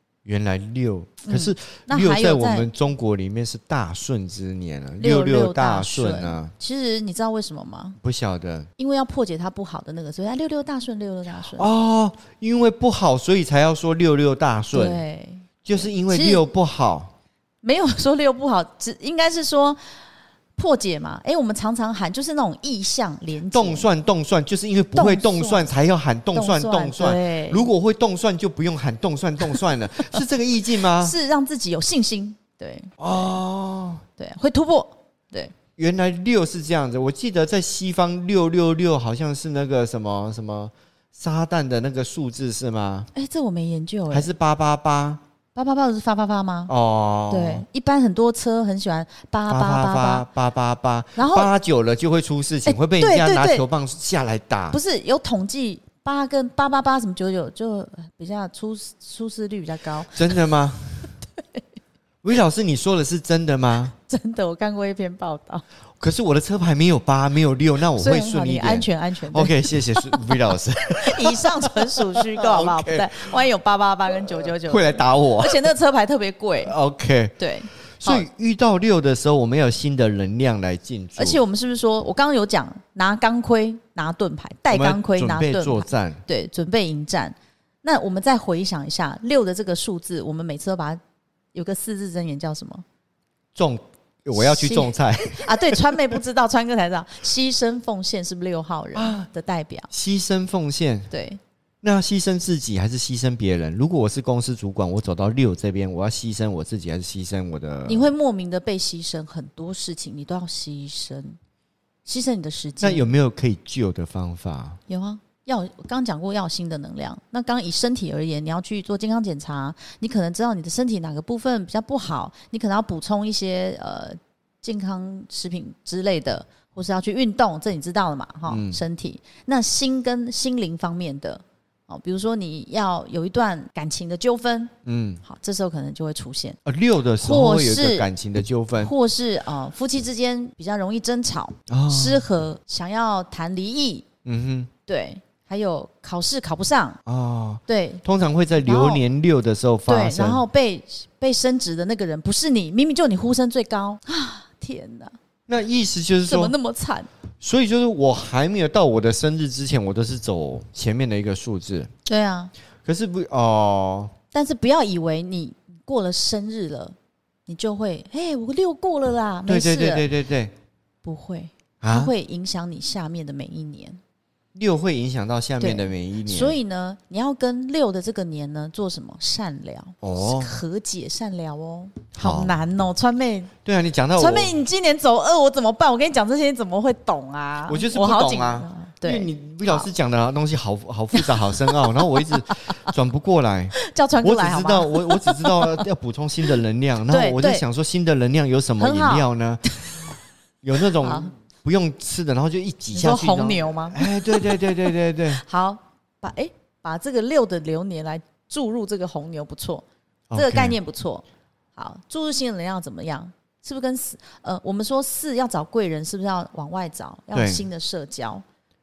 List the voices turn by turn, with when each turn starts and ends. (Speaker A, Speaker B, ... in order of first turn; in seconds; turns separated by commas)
Speaker A: 0.2-6.5, Speaker B: 1.2-2.7, Speaker B: 5.0-8.0, Speaker A: 8.0-8.7, Speaker B: 8.8-11.7, Speaker A: 11.5-15.0, Speaker B: 14.7-16.4, Speaker A: 15.6-17.1, Speaker B: 17.6-20.0, Speaker B: 20.6-23.9, Speaker A: 23.5-31.1, Speaker B: 24.9-25.7, Speaker B: 26.3-27.7, Speaker B: 30.9-32.9, Speaker A: 33.0-34.0, Speaker B: 34.2-35.5, Speaker A: 35.8-43.1, Speaker B: 43.1-44.3, Speaker A: 44.1-45.2, Speaker B: 45.5-46.7, Speaker A: 46.7-47.6, Speaker B: 47.3-50.2, Speaker A: 49.5-54.8, Speaker B: 51.1-51.5, Speaker B: 52.6-53.6, Speaker B: 54.7-60.4, Speaker A: 60.1-61.1, Speaker A: 62.2-63.9, Speaker B: 64.0-65.6, Speaker A: 66.0-73.3, Speaker B: 68.0-76.7, Speaker A: 74.2-75.7, Speaker A: 76.7-77.4, Speaker B: 77.4-78.2, Speaker A: 77.9-81.4, Speaker B: 81.2-91.0, Speaker A: 84.7-86.2, Speaker B: 91.5-92.8, Speaker A: 93.5-96.0, Speaker B: 94.3-99.9, Speaker A: 98.9-99.3, Speaker A: 99.9-101.1, Speaker B: 101.1-101.4, Speaker A: 101.8-108.1, Speaker B: 107.8-111.4, Speaker B: 112.0-113.1, Speaker A: 112.8-114.8, Speaker B: 114.9-134.7, Speaker A: 128.5-128.8, Speaker A: 134.8-135.2, Speaker B: 135.2-136.6, Speaker A: 136.6-138.9, Speaker B: 137.2-138.1, Speaker B: 138.8-144.1, Speaker A: 141.7-142.2, Speaker A: 144.2-144.7, Speaker B: 144.9-147.0, Speaker A: 147.1-150.4, Speaker B: 147.7-148.0, Speaker B: 148.6-149.0, Speaker B: 149.9-155.1, Speaker A: 155.5-156.5, Speaker B: 156.2-157.1, Speaker A: 157.4-161.9, Speaker B: 162.1-162.5, Speaker A: 162.8-164.1, Speaker B: 164.3-166.9, Speaker B: 167.5-170.1, Speaker A: 169.5-170.5, Speaker B: 171.0-174.0, Speaker A: 171.8-172.1, Speaker A: 174.5-176.6, Speaker B: 175.6-183.5, Speaker A: 180.0-180.6, Speaker A: 182.2-182.6, Speaker A: 183.6-184.6, Speaker B: 184.2-189.9, Speaker A: 187.7-200.0, Speaker B: 191.1-192.9, Speaker B: 193.8-195.8, Speaker B: 197.1-197.6, Speaker B: 198.8-200.1, Speaker A: 200.6-205.4, Speaker B: 201.0-201.3, Speaker B: 202.9-211.2, Speaker A: 210.3-210.8, Speaker B: 211.8-218.4, Speaker A: 217.3-217.6